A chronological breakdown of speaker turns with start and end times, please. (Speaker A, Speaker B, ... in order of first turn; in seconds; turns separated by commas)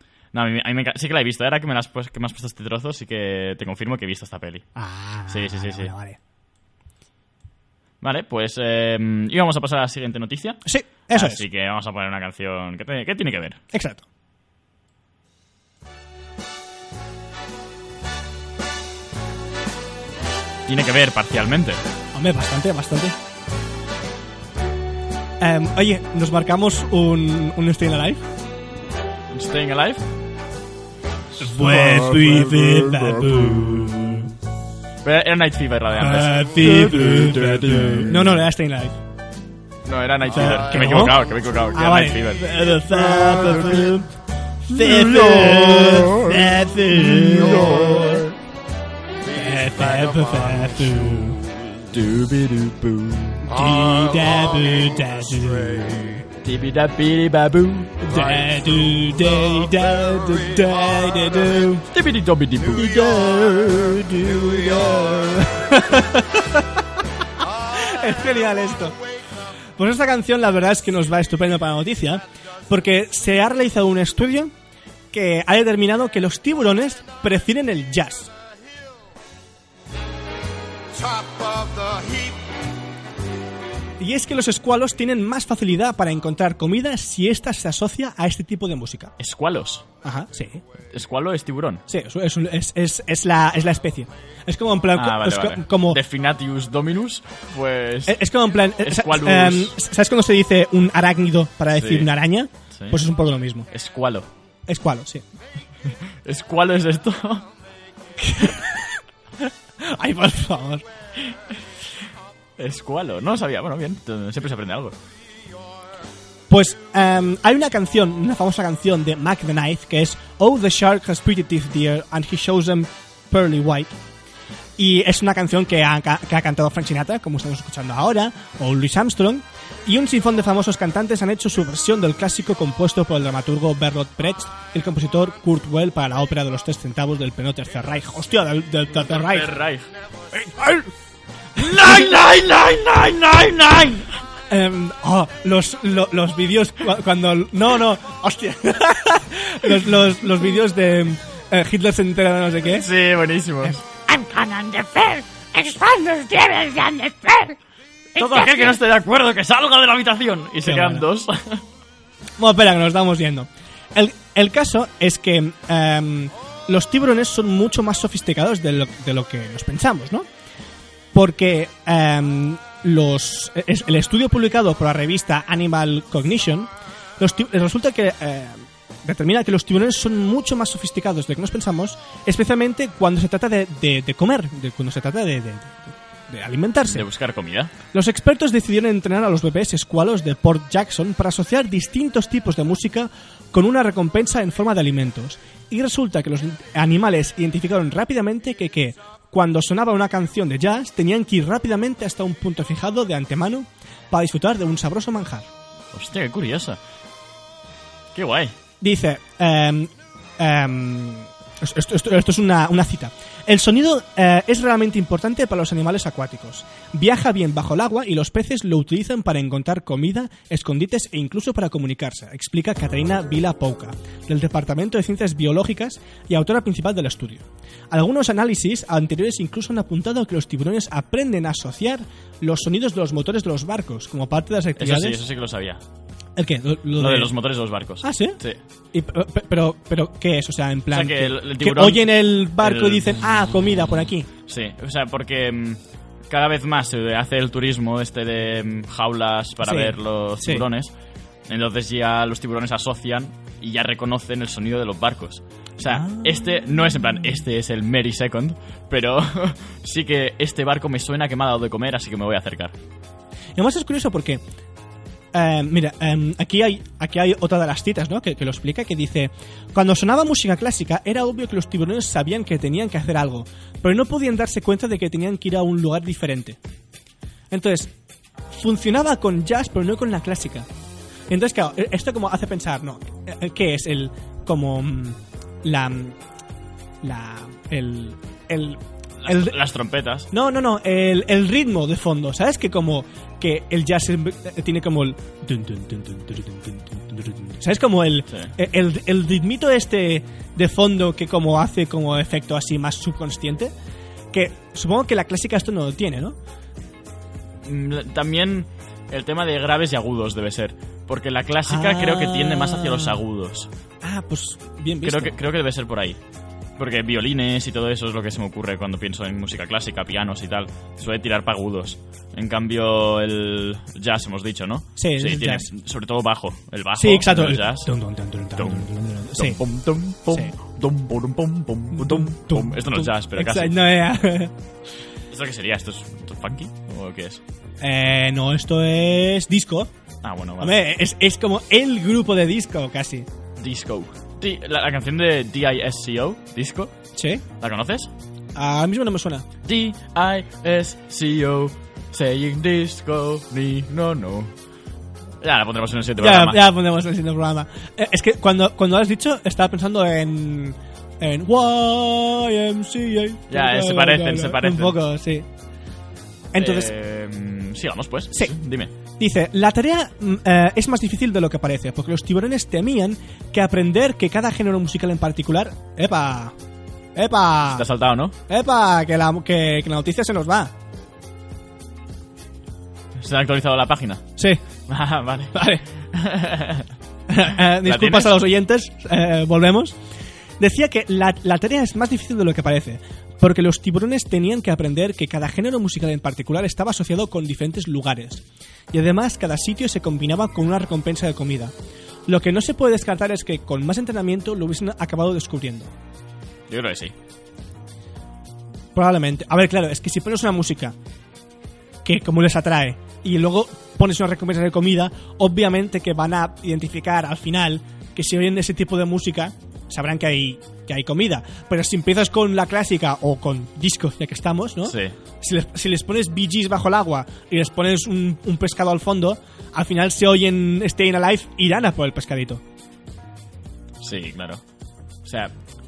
Speaker A: 0.3-4.7, Speaker B: 4.8-6.2, Speaker A: 5.3-5.9, Speaker A: 8.0-13.6, Speaker B: 10.6-11.4, Speaker B: 13.7-14.0, Speaker A: 20.6-21.8, Speaker B: 22.1-23.1, Speaker B: 25.4-28.2, Speaker A: 29.3-30.1, Speaker B: 31.4-34.3, Speaker A: 35.0-36.6, Speaker B: 36.0-39.0, Speaker A: 37.2-38.1, Speaker A: 39.9-42.5, Speaker B: 40.3-44.1, Speaker B: 44.6-48.3, Speaker B: 49.3-51.5, Speaker A: 51.8-53.5, Speaker B: 53.4-56.2, Speaker A: 56.4-58.3, Speaker B: 58.0-61.9, Speaker A: 61.9-63.0, Speaker B: 62.6-66.8, Speaker B: 67.7-69.0, Speaker B: 69.8-74.5, Speaker B: 75.1-78.3, Speaker B: 84.0-89.1, Speaker A: 89.2-89.8, Speaker B: 90.0-90.6, Speaker A: 90.9-91.8, Speaker B: 91.9-96.0, Speaker A: 94.9-98.2, Speaker B: 98.1-103.7, Speaker A: 98.8-99.7, Speaker A: 101.7-102.1, Speaker A: 102.7-103.0, Speaker A: 103.7-104.3, Speaker B: 104.7-105.2, Speaker A: 106.2-107.5, Speaker B: 108.2-109.0, Speaker B: 109.8-110.8, Speaker A: 112.6-115.0, Speaker B: 116.5-123.9, Speaker B: 124.8-139.5, Speaker A: 139.0-139.9, Speaker B: 140.3-140.9, Speaker A: 141.6-144.1, Speaker B: 141.7-142.1, Speaker B: 144.5-152.9, Speaker A: 152.6-153.8, Speaker C: 154.1-157.6, Speaker A: 158.2-161.6, Speaker C: 158.2-158.8, Speaker B: 160.6-161.0, Speaker B: 162.4-170.3, Speaker B: 171.1-187.1, Speaker A: 186.8-187.7, Speaker B: 187.9-205.5, Speaker A: 205.9-206.8, Speaker A: 208.1-208.6, Speaker B: 208.8-235.2, Speaker A: 234.8-235.8, Speaker B: 236.3-237.3, Speaker A: 237.0-238.6, Speaker B: 238.0-238.4, Speaker B: 238.9-244.3, Speaker A: 240.9-243.2, Speaker A: 244.5-250.9, Speaker B: 249.6-250.6, Speaker A: 251.5-262.7, Speaker B: 255.8-256.5, Speaker B: 263.6-264.4, Speaker B: 265.3-276.6, Speaker B: 277.5-277.9, Speaker B: 278.5-280.7, Speaker B: 281.3-286.2, Speaker B: 287.0-289.6, Speaker A: 289.2-290.3, Speaker B: 290.3-303.7, Speaker B: 304.3-306.4, Speaker A: 307.6-313.7, Speaker B: 311.6-313.2, Speaker B: 314.0-315.4, Speaker A: 315.0-316.2, Speaker A: 316.8-327.9, Speaker B: 325.0-325.7, Speaker B: 326.9-329.6, Speaker A: 328.6-333.8, Speaker B: 331.9-334.5, Speaker A: 335.3-337.4, Speaker B: 337.8-339.9, Speaker A: 340.2-340.7, Speaker B: 340.6-343.3, Speaker A: 343.6-346.9, Speaker B: 347.1-347.4, Speaker A: 347.6-348.1, Speaker B: 348.5-349.4, Speaker A: 349.6-354.5, Speaker A: 355.4-356.6, Speaker B: 356.2-365.5, Speaker A: 363.5-365.0, Speaker B: 366.5-366.9, Speaker A: 366.6-368.9, Speaker B: 369.2-376.5, Speaker B: 377.1-377.9, Speaker A: 377.7-378.3, Speaker B: 378.5-380.7, Speaker A: 383.2-384.2, Speaker A: 384.9-386.9, Speaker B: 385.5-385.8, Speaker B: 387.3-390.0, Speaker A: 387.7-388.4, Speaker B: 390.6-401.7, Speaker B: 402.3-405.9, Speaker A: 406.7-407.1, Speaker B: 408.9-410.9, Speaker B: 412.0-432.6, Speaker A: 424.8-425.1, Speaker A: 434.0-434.6, Speaker A: 435.2-435.5